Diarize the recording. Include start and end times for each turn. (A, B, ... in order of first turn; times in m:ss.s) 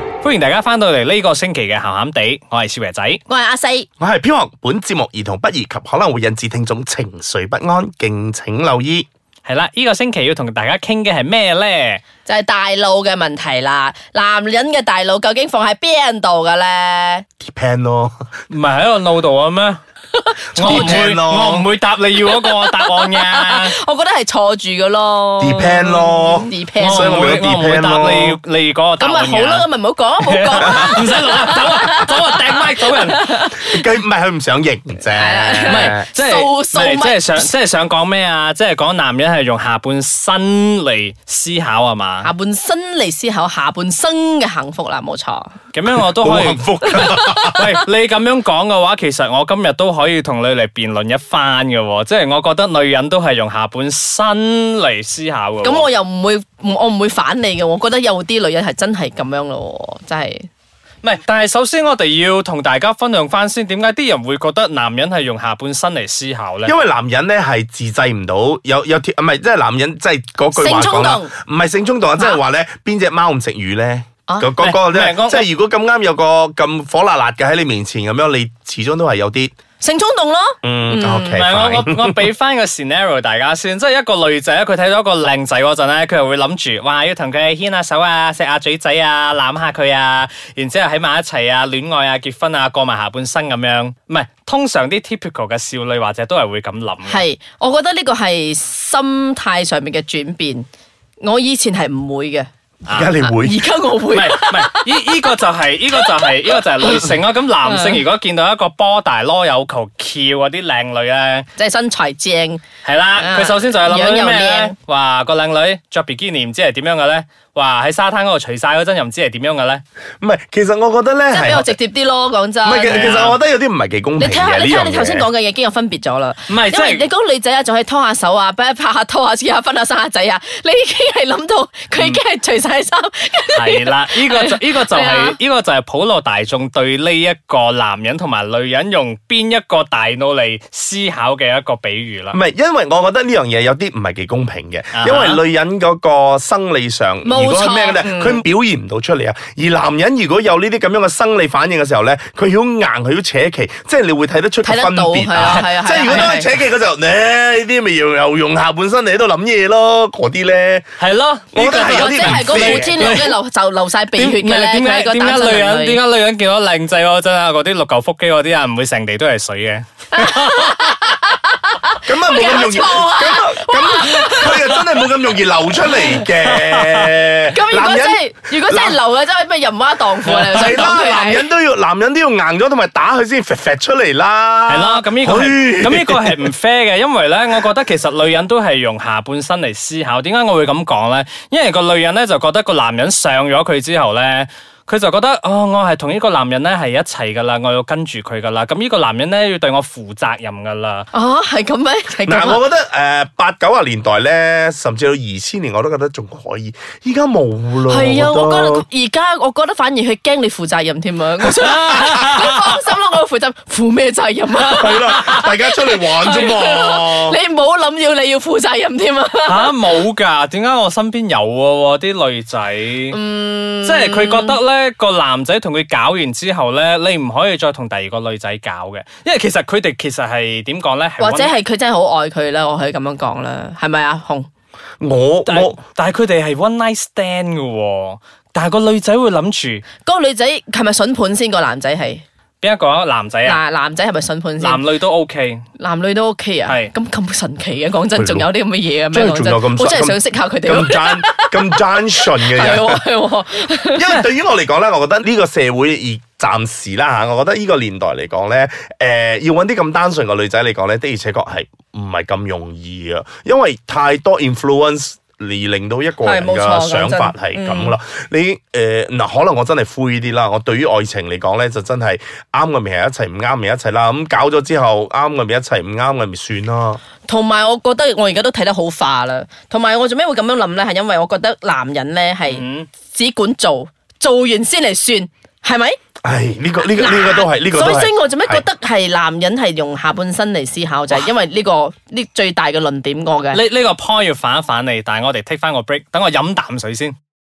0:00.2-0:03.2 A
0:03.3-0:03.9 B
0:04.0-0:09.0 C
0:09.4-0:12.0 A
0:12.2-0:17.2 B
0:17.4-0:18.2 C
0:18.5-0:19.8 A
0:20.1-0:21.0 B
0:20.5-0:23.7 A
0:20.6-0:21.7 C
0:22.3-0:27.2 B
0:25.4-0:28.4 C
0:26.8-0:29.7 A
0:29.0-0:33.8 B
0:30.2-0:33.2 A
0:30.8-0:31.0 C
0:33.6-0:36.0 C
0:35.1-0:37.5 B
0:35.7-0:42.3 A
0:42.2-0:45.6 B
0:45.7-0:55.8 A
0:46.2-0:47.8 C
0:55.6-1:00.5 B
1:01.0-1:06.7 A
1:06.6-1:19.5 C
1:10.6-1:11.3 B
1:14.6-1:15.5 A
1:19.8-1:21.4 B
1:20.6-1:22.2 C
1:21.3-1:37.2 A
1:37.0-1:40.7 B
1:41.2-1:42.5 B
1:42.8-1:43.1 A
1:42.9-1:43.6 C
1:43.2-1:45.2 B
1:44.1-1:51.5 A
1:45.9-1:46.9 B
1:47.6-1:48.0 B
1:51.6-1:52.6 B
1:52.8-1:59.8 A
1:53.2-1:54.7 B
2:00.2-2:01.8 C
2:01.3-2:03.3 B
2:02.6-2:05.3 C
2:02.9-2:03.4 A
2:04.2-2:15.3 B
2:06.5-2:07.1 A
2:13.5-2:22.4 A
2:22.3-2:40.9 C
2:24.9-2:25.4 A
2:27.2-2:28.4 B
2:34.6-2:36.5 B
2:35.4-2:36.3 A
2:41.0-2:43.3 A
2:41.5-2:43.2 C
2:41.7-2:46.0 B
2:44.2-2:51.0 A
2:50.1-2:54.9 B
2:52.0-2:59.0 C
2:56.3-2:57.1 A
2:57.5-3:01.4 B
3:00.3-3:00.6 A
3:00.3-3:06.5 C
3:04.7-3:21.1 A
3:21.1-3:22.6 B
3:22.2-3:28.8 C
3:27.9-3:39.7 B
3:31.6-3:32.8 A
3:34.7-3:35.3 A
3:34.7-3:37.4 C
3:39.4-3:43.2 A
3:43.1-3:44.6 B
3:43.8-3:51.5 A
3:51.2-3:54.5 B
3:55.0-3:55.8 C
3:55.4-3:59.8 A
4:00.0-4:02.2 B
4:02.6-4:03.6 A
4:03.4-4:04.8 B
4:04.6-4:05.6 A
4:05.8-4:14.1 B
4:06.7-4:06.9 A
4:08.2-4:08.5 C
4:09.1-4:13.0 C
4:13.9-4:37.0 C
4:26.2-4:28.0 B
4:37.2-4:46.0 B
4:42.5-4:42.9 A
4:46.2-4:48.6 C
4:47.0-4:53.6 B
4:53.5-4:57.1 A